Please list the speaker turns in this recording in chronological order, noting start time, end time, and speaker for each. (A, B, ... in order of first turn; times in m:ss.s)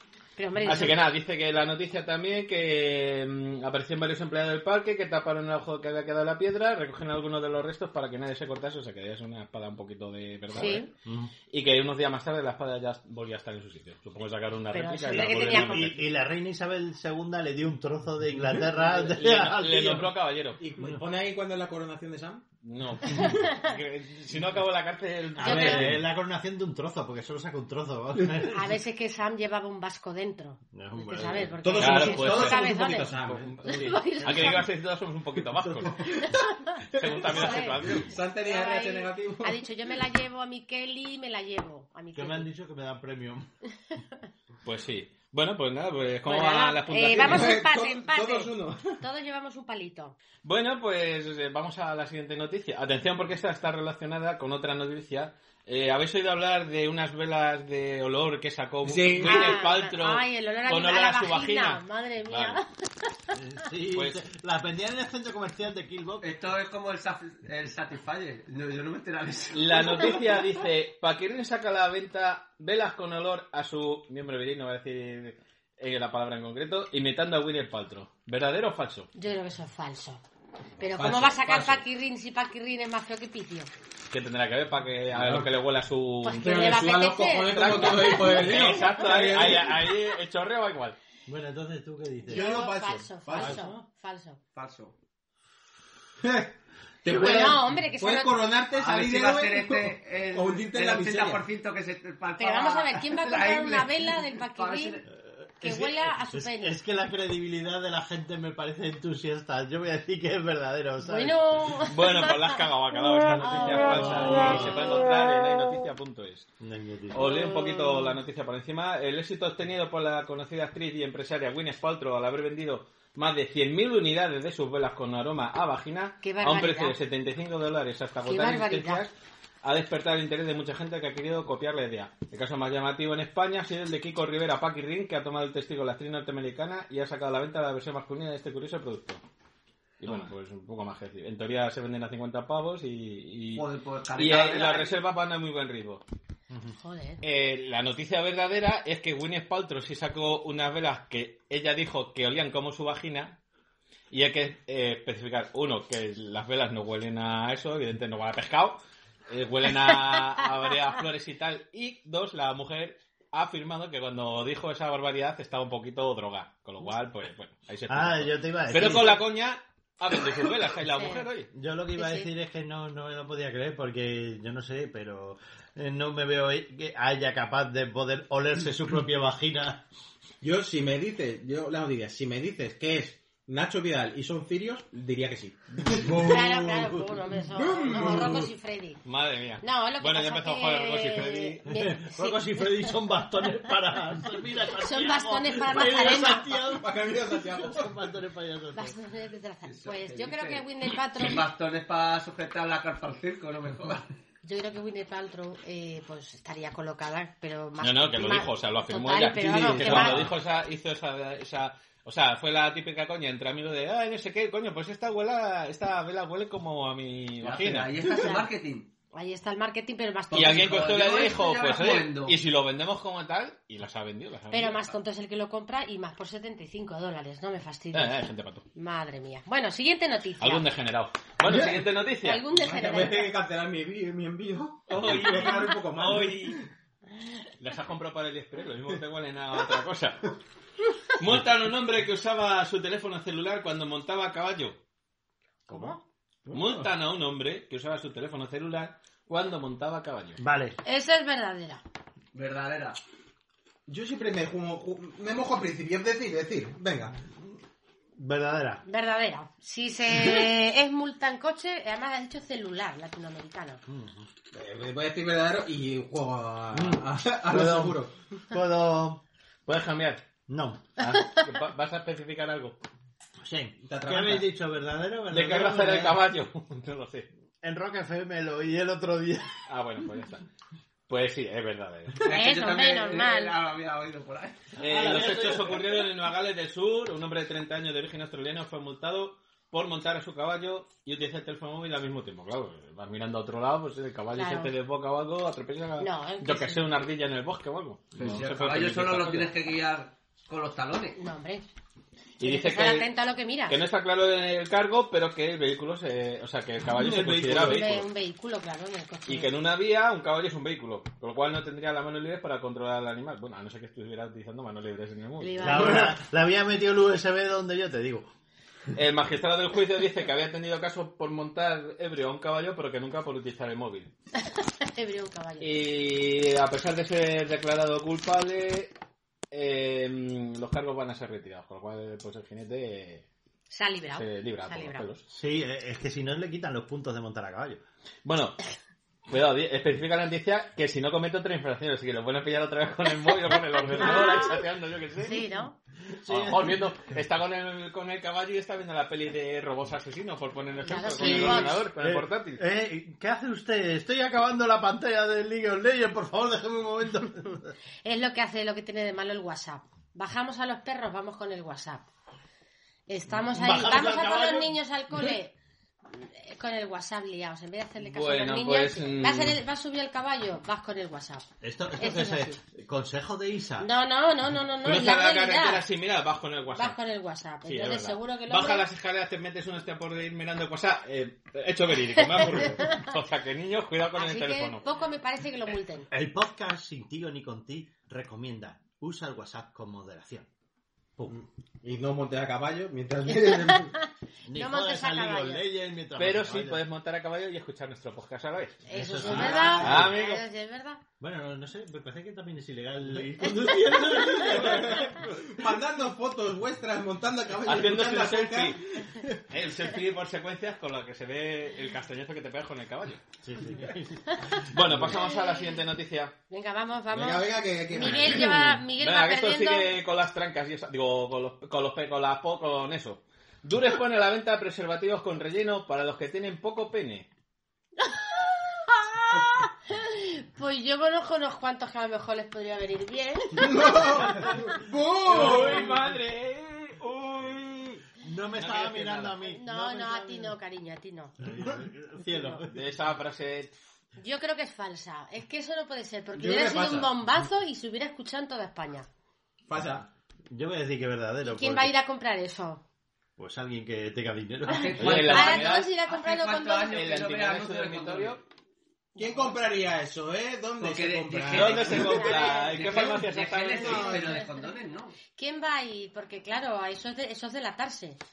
0:00.4-0:01.0 A
0:00.6-0:10.9 B
0:10.6-0:10.9 A
0:11.0-0:11.3 C
0:11.5-0:16.0 B
0:14.7-0:16.0 A
0:15.0-0:20.1 C
0:19.0-0:20.6 B
0:20.6-0:22.4 D
0:20.8-0:21.0 C
0:22.6-0:26.0 B
0:23.1-0:23.4 C
0:23.2-0:23.6 A
0:25.4-0:28.7 C
0:25.4-0:25.8 A
0:28.5-0:34.6 A
0:30.7-0:31.6 C
0:31.6-0:33.8 D
0:31.8-0:36.0 B
0:34.3-0:34.6 C
0:35.6-0:36.4 D
0:36.2-0:37.8 A
0:37.0-0:38.1 B
0:37.0-0:39.6 D
0:38.4-0:42.5 A
0:42.2-0:43.5 C
0:44.6-0:47.6 B
0:46.3-0:50.2 A
0:47.1-0:49.0 D
0:50.4-1:02.6 B
0:58.8-0:59.4 D
0:59.2-1:02.7 A
1:03.3-1:06.3 C
1:03.9-1:04.2 B
1:06.2-1:10.2 E
1:09.5-1:19.1 B
1:19.2-1:20.2 A
1:20.8-1:23.7 A
1:20.9-1:21.8 D
1:24.1-1:26.8 B
1:25.1-1:25.5 D
1:26.2-1:28.8 A
1:26.4-1:29.8 D
1:27.4-1:31.0 B
1:31.3-1:32.6 C
1:32.3-1:34.4 A
1:32.3-1:33.8 D
1:34.5-1:34.9 E
1:36.2-1:41.4 D
1:37.1-1:38.4 A
1:38.7-1:45.0 E
1:42.4-1:45.0 A
1:45.2-1:51.7 C
1:45.6-1:46.8 A
1:51.0-1:52.6 A
1:51.8-1:56.5 B
1:53.4-1:54.8 A
1:53.9-1:54.8 C
1:56.6-1:57.2 C
1:57.1-2:09.1 B
1:57.2-1:58.1 A
2:06.2-2:07.0 A
2:08.3-2:09.0 A
2:09.6-2:19.2 B
2:20.0-2:23.6 B
2:23.5-2:24.9 E
2:24.2-2:26.0 B
2:26.5-2:26.8 C
2:26.8-2:27.2 A
2:27.2-2:33.4 B
2:34.1-2:51.5 B
2:47.9-2:49.2 C
2:51.0-2:51.3 A
2:51.5-2:59.8 C
2:52.0-2:52.3 A
3:00.4-3:06.7 D
3:06.0-3:07.0 C
3:06.2-3:09.0 A
3:07.6-3:08.5 D
3:07.9-3:08.2 C
3:09.0-3:11.6 B
3:09.6-3:13.0 A
3:11.7-3:19.0 C
3:14.8-3:16.6 A
3:16.7-3:17.9 D
3:18.7-3:21.4 A
3:19.6-3:24.0 E
3:24.4-3:30.2 A
3:27.8-3:38.0 B
3:29.6-3:30.3 D
3:37.4-3:38.9 E
3:39.1-3:40.7 A
3:40.3-3:42.4 E
3:40.3-3:44.9 B
3:44.5-3:48.2 A
3:47.9-3:48.6 B
3:48.8-3:50.7 A
3:50.4-3:52.4 B
3:51.4-3:51.8 D
3:52.2-3:53.3 A
3:52.5-3:56.6 D
3:54.9-3:56.6 B
3:57.6-4:00.3 B
4:01.2-4:04.8 B
4:05.7-4:06.0 A
4:06.5-4:06.8 C
4:06.5-4:10.4 B
4:10.4-4:10.8 C
4:10.8-4:11.8 A
4:12.3-4:13.0 E
4:13.9-4:17.2 D
4:17.2-4:17.5 C
4:18.2-4:18.8 C
4:18.9-4:23.8 A
4:23.9-4:24.3 C
4:24.5-4:28.1 D
4:26.7-4:29.2 C
4:29.7-4:30.2 B
4:30.5-4:30.9 C
4:31.0-4:32.8 B
4:33.4-4:36.2 C
4:33.8-4:34.5 D
4:35.3-4:37.3 B
4:37.6-4:39.5 C
4:39.7-4:40.5 B
4:41.1-4:42.2 B
4:42.2-4:44.7 E
4:42.3-4:43.6 A
4:44.8-4:45.8 C
4:44.8-4:59.5 B
4:54.4-4:54.7 A
4:56.0-4:56.9 A
4:58.2-5:01.2 E
5:01.2-5:01.6 A
5:02.4-5:03.1 B
5:02.4-5:03.8 A
5:03.7-5:08.1 B
5:06.9-5:07.9 C
5:07.6-5:09.5 A
5:09.3-5:16.1 B
5:15.4-5:16.2 A
5:15.6-5:18.3 C
5:18.9-5:24.1 B
5:24.6-5:25.8 A
5:25.6-5:28.9 B
5:29.5-5:33.2 B
5:33.7-5:35.1 A
5:34.1-5:35.2 B
5:35.3-5:37.8 C
5:38.2-5:38.6 B
5:39.3-5:45.5 B
5:44.0-5:44.5 A
5:45.2-5:45.7 A
5:46.1-5:46.9 C
5:46.3-5:52.6 B
5:50.9-5:51.8 A
5:51.2-5:57.7 C
5:58.0-6:02.1 A
6:03.1-6:05.6 A
6:03.4-6:04.8 C
6:06.1-6:11.5 A
6:08.0-6:09.6 B
6:11.6-6:13.9 C
6:12.0-6:12.6 A
6:13.8-6:15.8 A
6:14.8-6:17.0 B
6:16.7-6:18.8 A
6:17.6-6:24.8 B
6:22.2-6:23.1 A
6:24.2-6:26.1 A
6:26.1-6:30.5 C
6:31.3-6:33.9 D
6:33.4-6:35.6 A
6:34.5-6:36.8 C
6:36.2-6:40.4 B
6:38.9-6:41.0 A
6:38.9-6:40.3 C
6:39.6-6:40.0 D
6:41.2-6:45.7 C
6:43.4-6:44.2 A
6:44.3-6:49.4 D
6:47.6-6:48.8 B
6:49.5-6:53.2 B
6:53.4-6:55.1 C
6:54.7-6:56.4 B
6:56.5-6:59.9 A
6:57.1-6:58.6 D
6:59.0-7:07.3 B
7:08.0-7:14.5 A
7:13.6-7:15.9 D
7:15.3-7:18.0 B
7:18.2-7:20.6 C
7:18.6-7:19.4 B
7:19.5-7:21.4 A
7:21.4-7:22.8 C
7:22.7-7:23.7 B
7:24.2-7:29.1 A
7:26.3-7:27.1 D
7:29.7-7:30.1 D
7:30.5-7:31.9 C
7:31.4-7:32.8 A
7:33.4-7:35.3 C
7:34.7-7:38.4 E
7:35.0-7:35.9 B
7:35.1-7:37.0 A
7:36.8-7:38.4 B
7:39.2-7:42.3 D
7:39.2-7:39.5 A
7:40.8-7:45.2 E
7:41.5-7:44.2 B
7:42.0-7:43.1 A
7:43.7-7:44.7 A
7:45.4-7:48.2 A